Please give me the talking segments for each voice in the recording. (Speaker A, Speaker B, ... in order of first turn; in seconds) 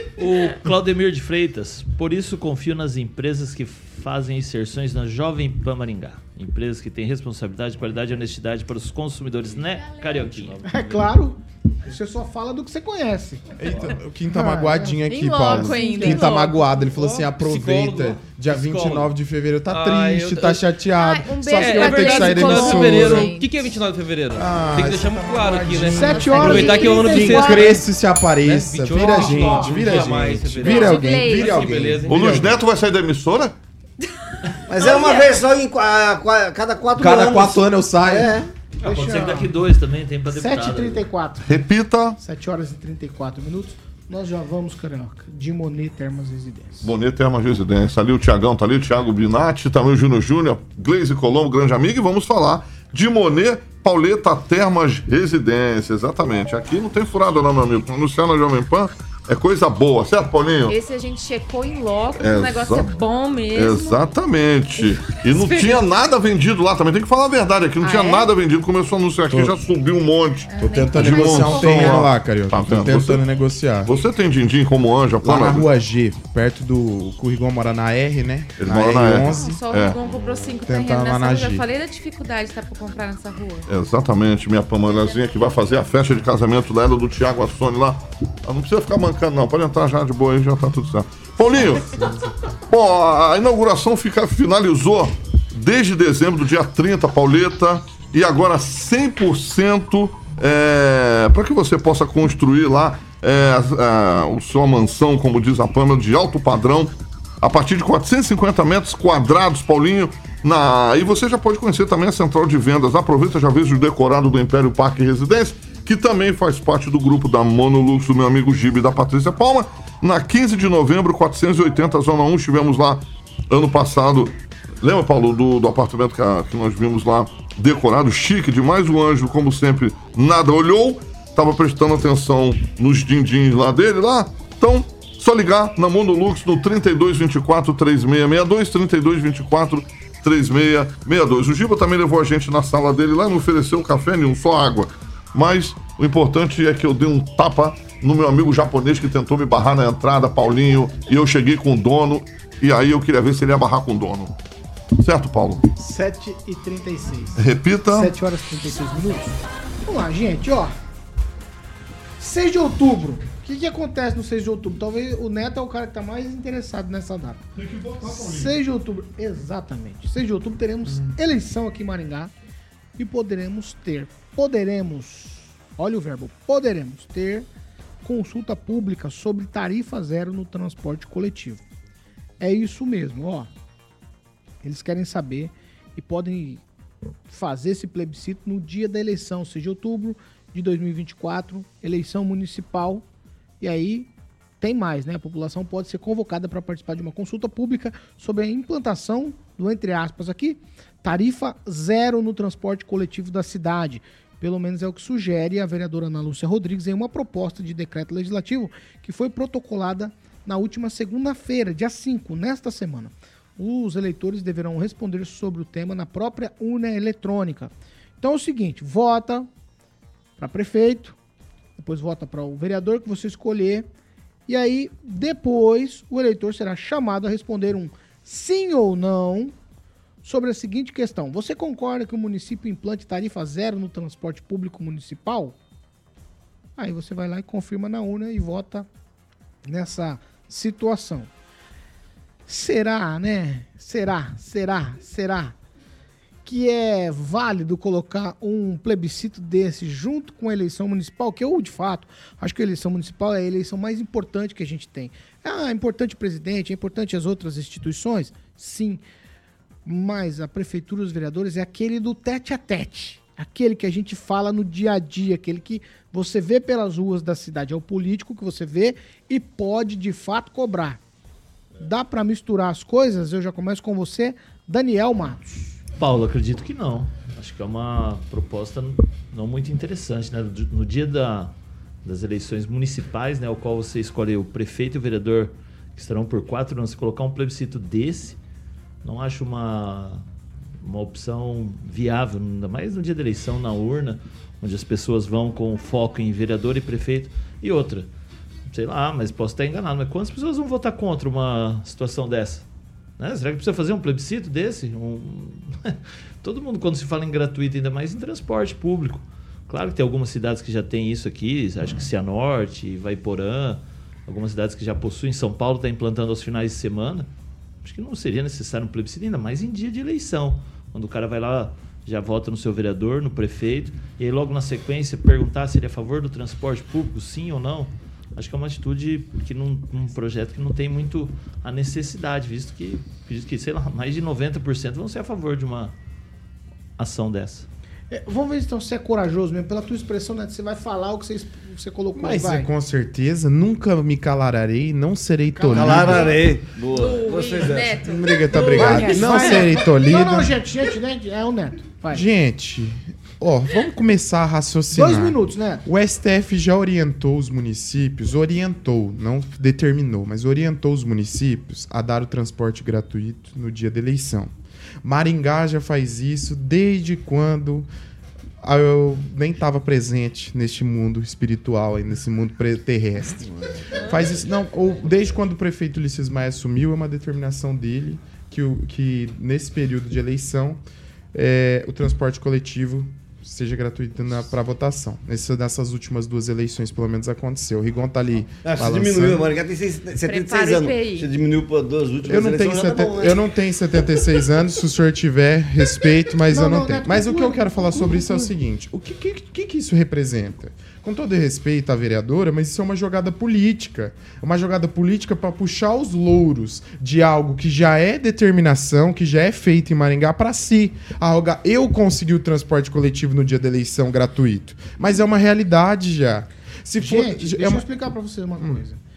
Speaker A: 0.2-10.7, 38.8-41.1, 275.9-288.4, 289.0-290.3, 290.8-298.1, 298.7-302.7, 303.2-317.3, 317.8-335.9, 337.0-337.7
Speaker B: 9.4-11.2, 16.9-19.1, 19.7-20.6, 21.5-27.9, 28.4-32.4
Speaker C: 10.7-13.6, 14.3-16.2, 25.9-27.6, 28.9-30.0, 38.8-39.5, 40.3-41.5, 42.2-46.9, 155.8-160.8, 162.2-167.4, 168.0-172.3, 173.0-177.5, 178.0-181.6, 182.4-183.5, 184.6-186.6, 187.3-193.1, 193.6-219.5, 220.4-221.2, 221.8-223.9, 224.5-229.6, 230.2-235.6, 236.8-238.9, 239.7-241.3, 242.5-245.6, 246.4-259.0, 259.9-271.0, 271.8-275.8, 338.1-342.7, 345.6-346.4, 348.6-352.3, 354.9-355.8, 396.5-398.5, 417.0-419.0
Speaker D: 13.6-23.3, 24.4-32.6, 37.0-38.4, 69.3-69.6, 70.6-73.9, 75.2-81.6, 170.9-171.2, 342.1-346.4, 348.1-350.6, 352.1-367.9, 368.6-380.8, 381.3-389.5, 392.3-417.9, 418.6-418.8
Speaker E: 15.1-16.7, 21.0-23.5, 26.1-27.7, 30.6-31.8, 34.8-35.4, 60.7-64.0, 64.8-65.8, 67.8-68.3, 70.5-72.0, 79.2-83.7, 84.9-85.2, 346.1-346.4, 346.9-349.9, 390.2-391.3
Speaker F: 32.1-33.5, 41.4-42.2, 46.8-60.8, 62.1-62.9, 63.5-73.2, 73.8-75.7, 78.6-80.0, 83.7-92.1, 92.7-154.3, 155.0-155.6, 157.4-158.1
Speaker G: 34.7-38.5, 345.7-348.0, 388.6-393.4